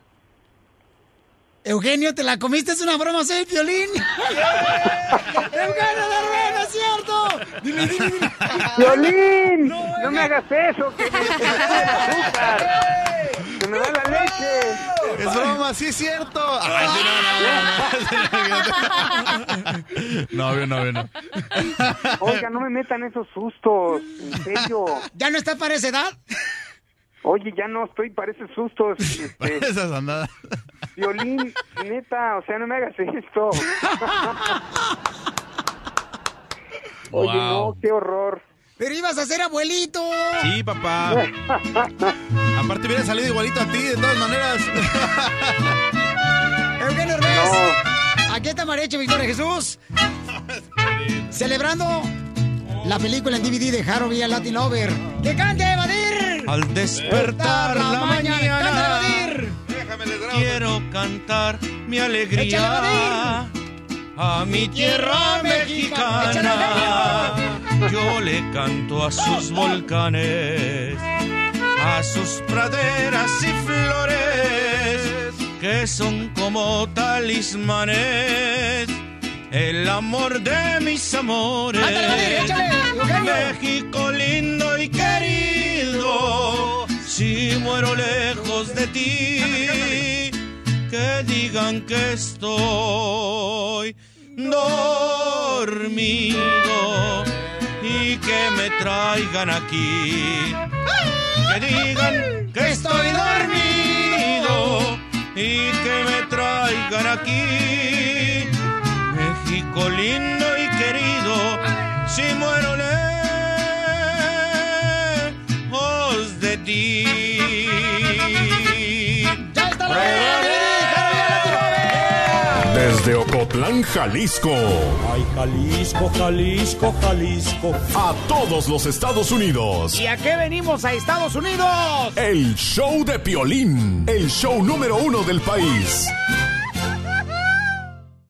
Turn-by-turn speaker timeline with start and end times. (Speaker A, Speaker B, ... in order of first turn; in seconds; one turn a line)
Speaker A: 1.6-4.6
Speaker B: 4.7-5.4
Speaker A: 5.3-8.5
Speaker C: 7.8-8.5
Speaker B: 8.7-12.8
Speaker B: 13.5-15.0
Speaker C: 15.1-22.3
Speaker B: 17.4-17.8
Speaker B: 22.2-25.1
Speaker A: 25.1-26.2
Speaker B: 27.2-29.6
Speaker C: 29.1-30.5
Speaker B: 30.9-34.3
Speaker A: 34.0-34.5
Speaker C: 37.1-37.8
Speaker B: 37.1-38.4
Speaker A: 38.8-40.5
Speaker C: 40.4-41.2
Speaker B: 41.0-42.1
Speaker C: 42.5-45.8
Speaker A: 46.8-47.6
Speaker B: 47.3-47.8
Speaker A: 48.3-49.8
Speaker A: 51.3-52.1
Speaker A: 52.8-59.5
Speaker D: 56.5-59.4
Speaker C: 59.7-60.7
Speaker D: 60.3-63.5
Speaker A: 62.3-63.4
Speaker D: 64.2-71.0
Speaker A: 64.4-67.4
Speaker D: 71.8-79.0
Speaker D: 79.5-100.6
Speaker A: 81.8-83.6
Speaker D: 101.4-108.5
Speaker A: 102.5-104.5
Speaker D: 109.1-119.3
Speaker A: 119.4-122.5
Speaker D: 119.8-121.3
Speaker E: 122.6-125.0
Speaker E: 127.9-130.0
Speaker A: 129.9-132.2
Speaker E: 132.1-136.1